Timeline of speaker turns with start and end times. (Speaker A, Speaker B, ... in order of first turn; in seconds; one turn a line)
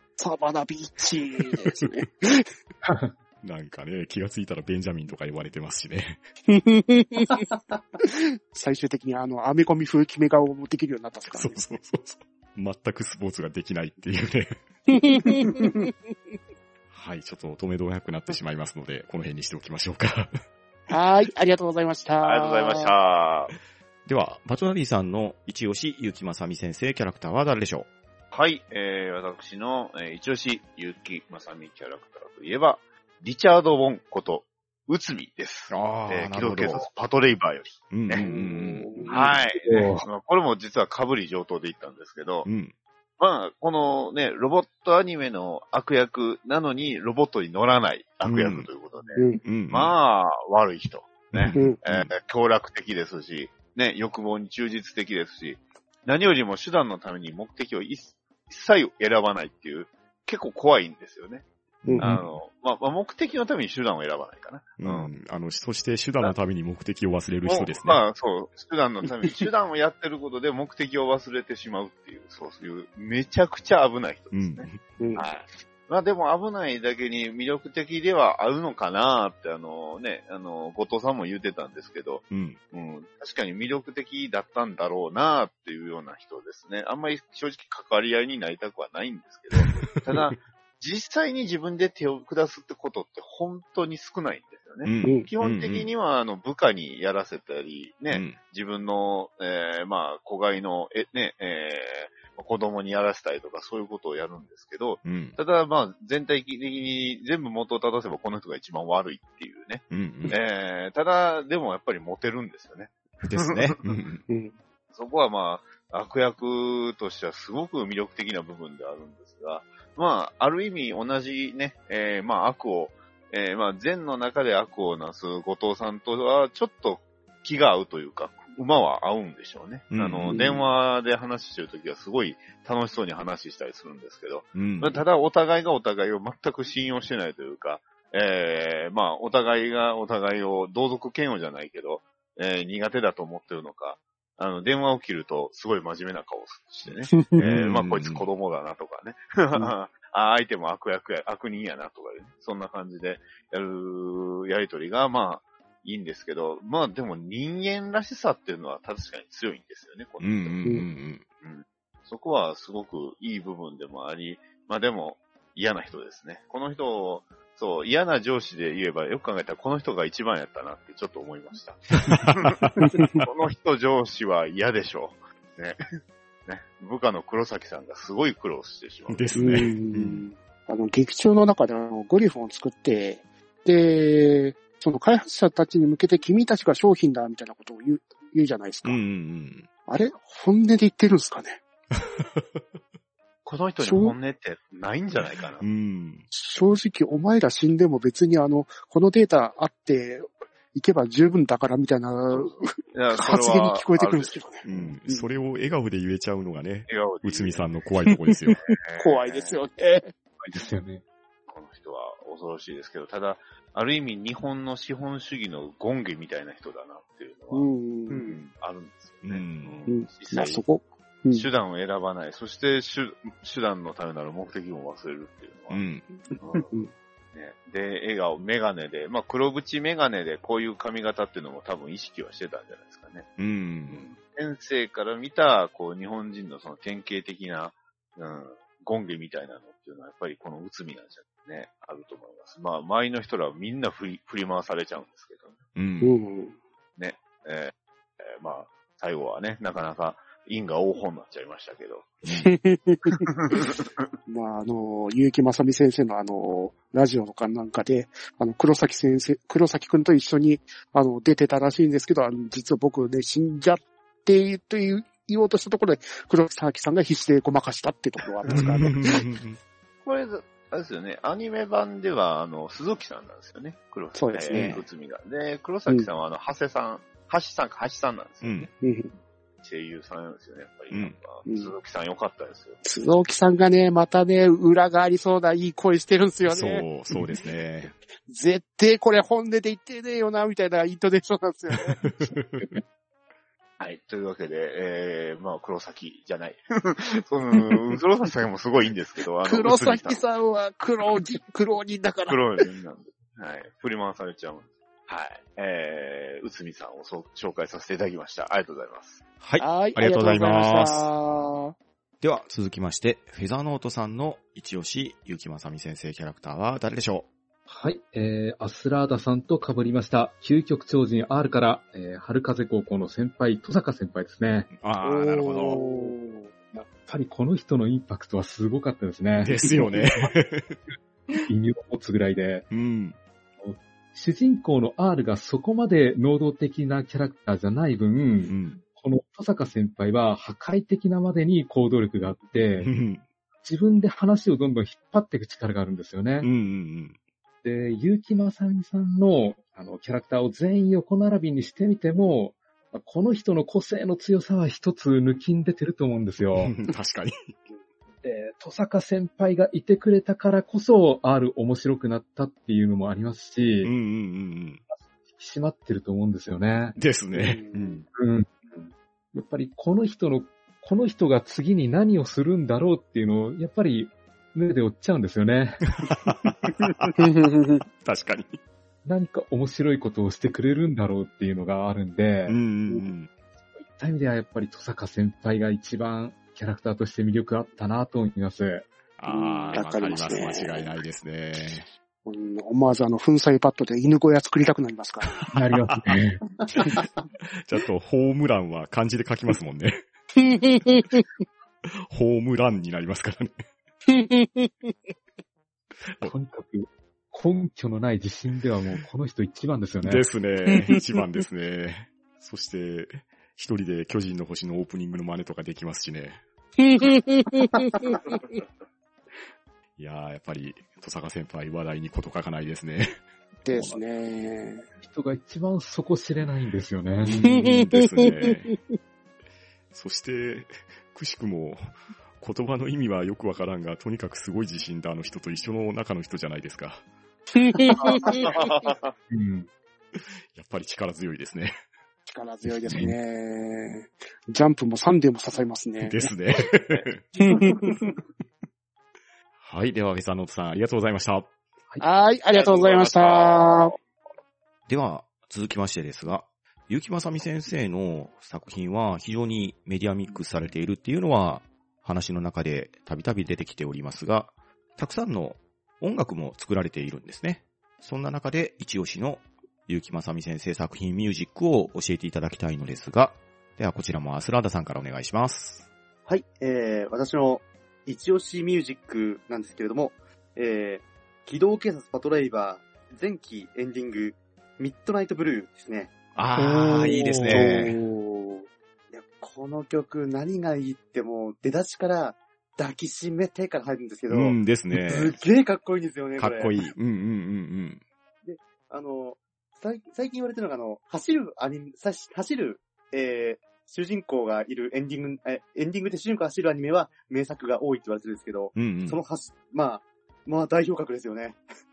Speaker A: 0.2-2.5
Speaker B: 2.8-3.1
Speaker C: 3.4-6.2
Speaker A: 6.5-7.4
Speaker A: 8.0-11.7
Speaker C: 11.3-14.6
Speaker A: 14.9-15.9
Speaker C: 16.9-20.3
Speaker A: 20.9-22.9
Speaker D: 22.2-23.5
Speaker C: 24.1-27.9
Speaker D: 28.3-38.4
Speaker C: 35.7-36.9
Speaker C: 37.9-39.0
Speaker A: 38.1-39.2
Speaker B: 39.1-40.0
Speaker D: 39.1-42.5
Speaker C: 42.4-42.7
Speaker D: 43.2-61.5
Speaker C: 48.2-48.7
Speaker A: 49.1-49.4
Speaker C: 49.4-49.9
Speaker C: 51.3-52.1
Speaker A: 51.5-51.8
Speaker A: 61.9-62.2
Speaker C: 61.9-62.2
Speaker D: 62.0-65.1
Speaker C: 64.8-68.0
Speaker D: 67.4-113.7
Speaker C: 74.3-74.8
Speaker A: 75.0-75.2
Speaker C: 82.3-82.6
Speaker C: 89.5-90.3
Speaker C: 94.8-95.9
Speaker A: 95.0-95.3
Speaker C: 98.1-98.4
Speaker C: 105.0-105.3
Speaker C: 109.9-110.4
Speaker C: 113.2-114.2
Speaker A: 114.3-114.5
Speaker D: 114.9-160.8
Speaker C: 129.9-130.7
Speaker C: 134.5-135.0
Speaker A: 147.1-147.4
Speaker C: 147.4-148.3
Speaker C: 160.2-161.2
Speaker D: 161.4-175.8
Speaker C: 172.1-172.8
Speaker A: 172.8-173.2
Speaker D: 176.4-179.8
Speaker C: 179.1-180.2
Speaker A: 179.4-189.0
Speaker C: 188.8-189.7
Speaker A: 189.9-191.6
Speaker C: 192.0-192.6
Speaker D: 193.4-195.7
Speaker A: 193.8-194.1
Speaker C: 195.6-196.2
Speaker A: 196.3-205.3
Speaker D: 202.3-204.9
Speaker C: 204.7-208.6
Speaker D: 206.9-207.7
Speaker D: 208.6-209.6
Speaker A: 209.0-210.1
Speaker B: 210.4-211.0
Speaker D: 211.5-220.6
Speaker A: 217.5-218.4
Speaker E: 218.1-218.4
Speaker C: 219.2-219.8
Speaker A: 219.9-221.5
Speaker D: 221.3-225.8
Speaker C: 225.7-226.0
Speaker D: 226.4-226.7
Speaker D: 227.3-233.3
Speaker C: 233.4-234.1
Speaker D: 233.9-245.6
Speaker C: 245.8-246.2
Speaker A: 246.0-246.5
Speaker D: 247.0-252.2
Speaker A: 252.4-253.2
Speaker D: 253.3-253.9
Speaker A: 254.3-269.3
Speaker C: 268.5-269.6
Speaker D: 270.0-278.7
Speaker A: 274.1-274.8
Speaker C: 274.5-274.8
Speaker C: 278.4-278.7
Speaker A: 278.8-279.1
Speaker D: 279.6-282.8
Speaker C: 280.9-281.2
Speaker A: 281.4-281.7
Speaker A: 282.8-286.9
Speaker C: 286.4-287.9
Speaker A: 288.2-292.0
Speaker C: 292.0-292.7
Speaker D: 293.8-300.2
Speaker A: 299.4-302.6
Speaker D: 302.3-309.2
Speaker C: 309.4-311.1
Speaker A: 309.6-311.7
Speaker C: 312.2-317.3
Speaker B: 317.7-324.7
Speaker C: 324.8-325.8
Speaker A: 325.0-326.5
Speaker B: 326.7-330.3
Speaker C: 329.4-330.8
Speaker B: 331.4-332.7
Speaker C: 332.7-333.2
Speaker B: 333.6-342.9
Speaker C: 338.5-338.8
Speaker C: 342.8-343.2
Speaker B: 343.6-346.5
Speaker C: 346.4-347.1
Speaker B: 347.6-356.7
Speaker C: 356.6-357.5
Speaker B: 358.2-363.9
Speaker C: 363.8-364.8
Speaker B: 365.3-367.0
Speaker C: 366.9-368.1
Speaker A: 367.3-368.0
Speaker B: 368.1-375.9
Speaker C: 376.1-377.3
Speaker A: 377.2-377.8
Speaker C: 378.0-378.6
Speaker B: 379.0-382.6
Speaker C: 382.5-383.3
Speaker B: 383.7-388.9
Speaker C: 389.2-391.9
Speaker A: 389.3-390.9
Speaker A: 392.2-395.5
Speaker C: 395.2-396.0
Speaker B: 395.5-396.4
Speaker C: 396.7-400.0
Speaker A: 400.4-401.2
Speaker C: 401.9-403.6
Speaker A: 404.1-404.9
Speaker B: 406.2-410.3
Speaker C: 410.0-416.4
Speaker A: 410.7-411.0
Speaker A: 416.8-418.6
Speaker C: 420.0-423.2
Speaker A: 423.6-424.9
Speaker C: 423.7-424.0
Speaker B: 425.0-427.4
Speaker A: 427.3-428.8
Speaker C: 427.4-428.8
Speaker C: 429.9-437.0
Speaker A: 437.6-438.5
Speaker E: 438.1-438.5
Speaker D: 438.3-439.1
Speaker B: 439.3-439.7
Speaker C: 440.1-441.8
Speaker A: 442.2-446.3
Speaker B: 442.9-443.1
Speaker C: 446.0-447.2
Speaker A: 447.4-447.9
Speaker C: 449.6-451.5
Speaker A: 452.0-453.9
Speaker D: 452.5-454.0
Speaker C: 454.9-475.8
Speaker E: 476.2-486.1
Speaker C: 486.3-487.9
Speaker A: 486.6-488.7
Speaker B: 487.1-487.7
Speaker E: 489.1-496.8
Speaker C: 494.3-495.4
Speaker C: 496.4-498.0
Speaker E: 498.4-511.6
Speaker C: 508.7-509.2